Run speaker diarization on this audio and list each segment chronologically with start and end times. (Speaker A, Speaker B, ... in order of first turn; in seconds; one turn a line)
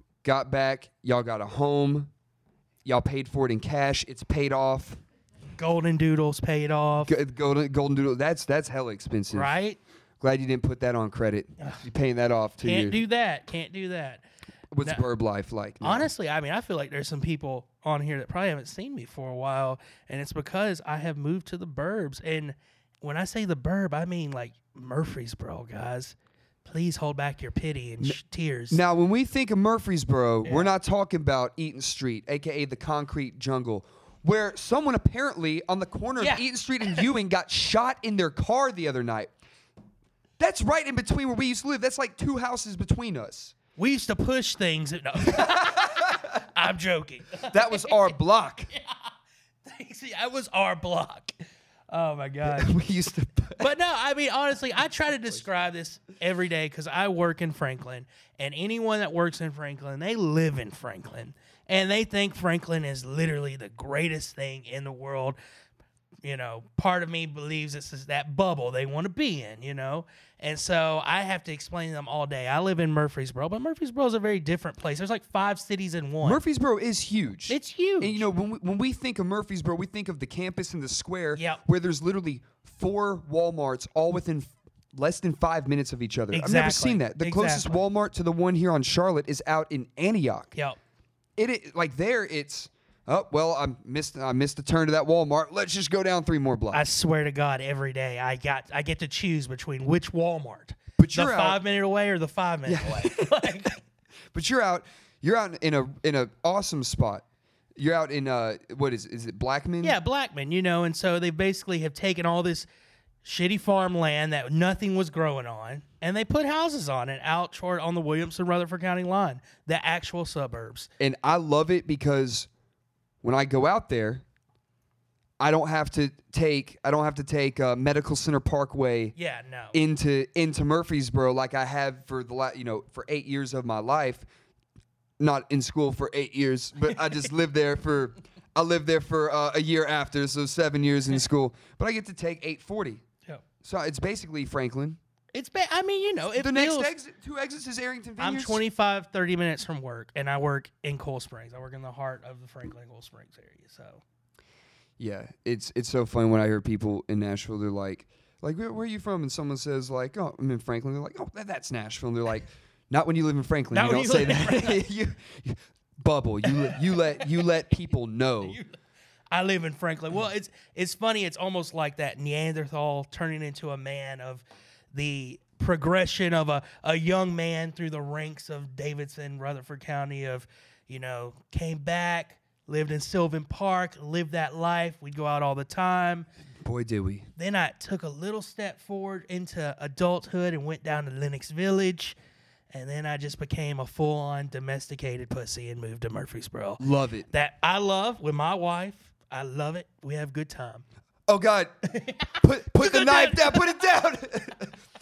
Speaker A: 0.2-2.1
Speaker A: 2.8-5.0
Speaker B: 5.6-7.1
Speaker A: 7.0-9.5
Speaker B: 9.3-9.8
Speaker A: 10.2-13.0
Speaker B: 12.6-14.2
Speaker A: 14.7-16.1
Speaker B: 15.8-28.8
Speaker A: 28.7-39.3
Speaker B: 30.4-30.7
Speaker B: 36.2-37.0
Speaker A: 40.4-43.5
Speaker B: 43.8-48.0
Speaker A: 45.2-46.3
Speaker A: 47.4-48.7
Speaker B: 48.7-49.1
Speaker B: 49.6-51.3
Speaker B: 51.9-52.8
Speaker A: 52.4-53.7
Speaker B: 53.6-65.4
Speaker B: 66.2-76.4
Speaker A: 76.2-90.5
Speaker B: 77.5-78.2
Speaker B: 81.3-81.6
Speaker B: 86.3-87.8
Speaker A: 91.4-96.8
Speaker B: 96.7-103.8
Speaker A: 101.0-101.6
Speaker A: 102.7-103.5
Speaker A: 104.3-107.2
Speaker A: 107.8-110.0
Speaker B: 109.8-112.7
Speaker B: 113.2-120.9
Speaker A: 121.0-122.5
Speaker A: 123.2-124.2
Speaker A: 125.4-129.1
Speaker B: 129.2-129.8
Speaker A: 129.7-134.3
Speaker A: 135.2-143.0
Speaker A: 143.6-145.0
Speaker B: 145.3-146.9
Speaker A: 146.4-148.6
Speaker B: 148.2-154.0
Speaker A: 155.0-168.6
Speaker B: 163.7-164.8
Speaker B: 166.5-167.3
Speaker B: 168.4-168.8
Speaker B: 169.3-186.3
Speaker A: 186.6-187.3
Speaker B: 187.4-192.2
Speaker B: 192.7-200.8
Speaker A: 196.8-197.3
Speaker A: 201.3-201.7
Speaker B: 201.9-203.7
Speaker A: 202.4-204.8